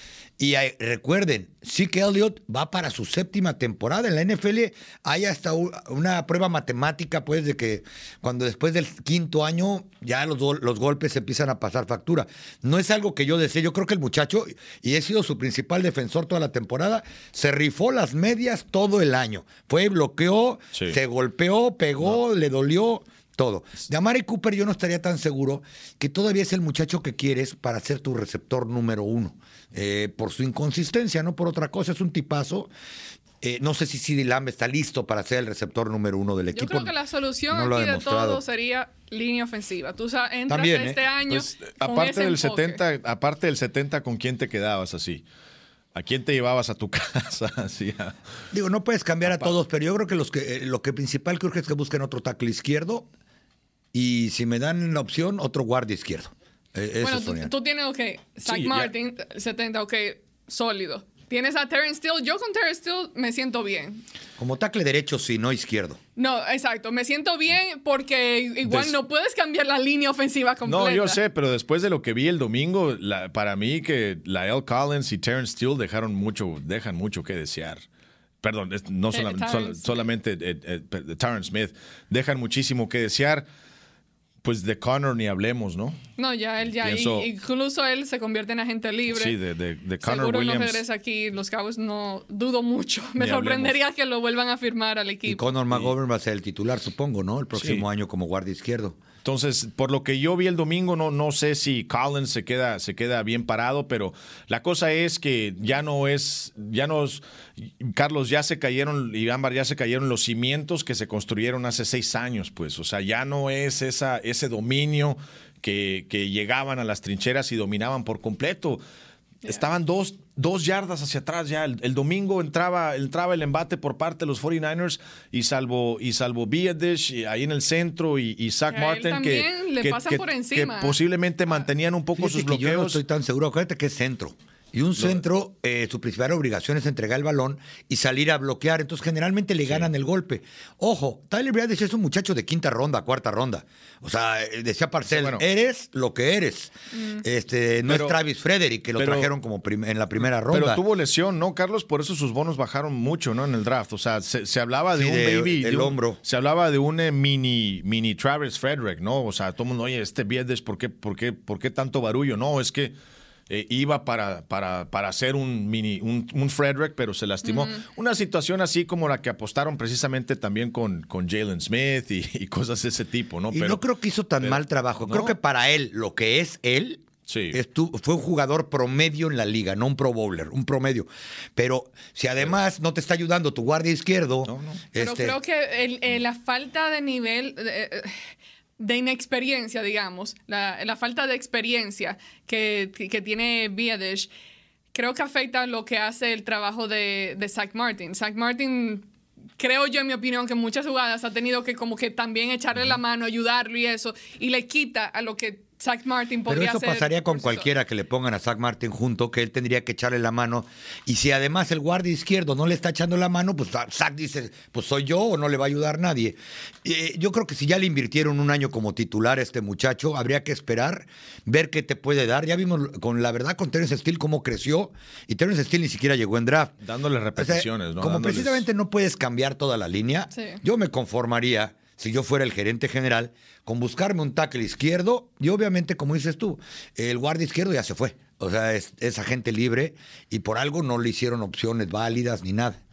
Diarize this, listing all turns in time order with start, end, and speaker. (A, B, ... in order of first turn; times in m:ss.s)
0:00.4-0:32.7 A
0:33.4-0:36.9 A
0:36.5-0:42.8 B
0:37.5-0:38.4 A
0:40.5-0:41.0 A
0:41.3-0:45.2 C
0:46.0-0:48.2 C
0:48.5-0:53.1 A
0:49.3-0:49.5 C
0:53.9-0:57.5 A
0:57.0-1:04.0 B
0:58.4-0:58.9 C
1:04.4-1:06.0 A
1:06.2-1:11.2 B
1:08.6-1:09.0 C
1:10.6-1:17.8 C
1:18.4-1:23.5 C
1:19.1-1:20.1 B
1:24.4-1:26.0 C
1:26.2-1:29.4 B
1:26.8-1:27.3 C
1:29.1-1:30.8 C
1:30.0-1:35.4 B
1:33.2-1:33.8 C
1:35.3-1:39.0 A
1:37.5-1:37.9 C
1:39.2-1:58.8 C
1:59.4-2:13.0 C
2:08.7-2:11.0 B
2:12.2-2:30.8 A
2:19.6-2:19.9 C
2:25.1-2:25.4 C
2:26.9-2:27.2 B
2:27.9-2:28.2 C
2:29.0-2:29.3 C
2:30.2-2:42.9 C
2:34.9-2:36.2 A
2:43.5-2:53.8 C
2:47.4-2:47.8 B
2:53.5-3:05.4 A
2:54.4-2:55.3 C
2:57.3-2:57.6 C
3:04.5-3:04.8 C
3:05.0-3:14.3 B
3:14.9-3:19.1 B
3:19.6-3:27.7 B
3:26.5-3:46.7 A
3:46.8-3:48.7 C
3:47.4-4:02.8 A
3:50.3-3:50.6 B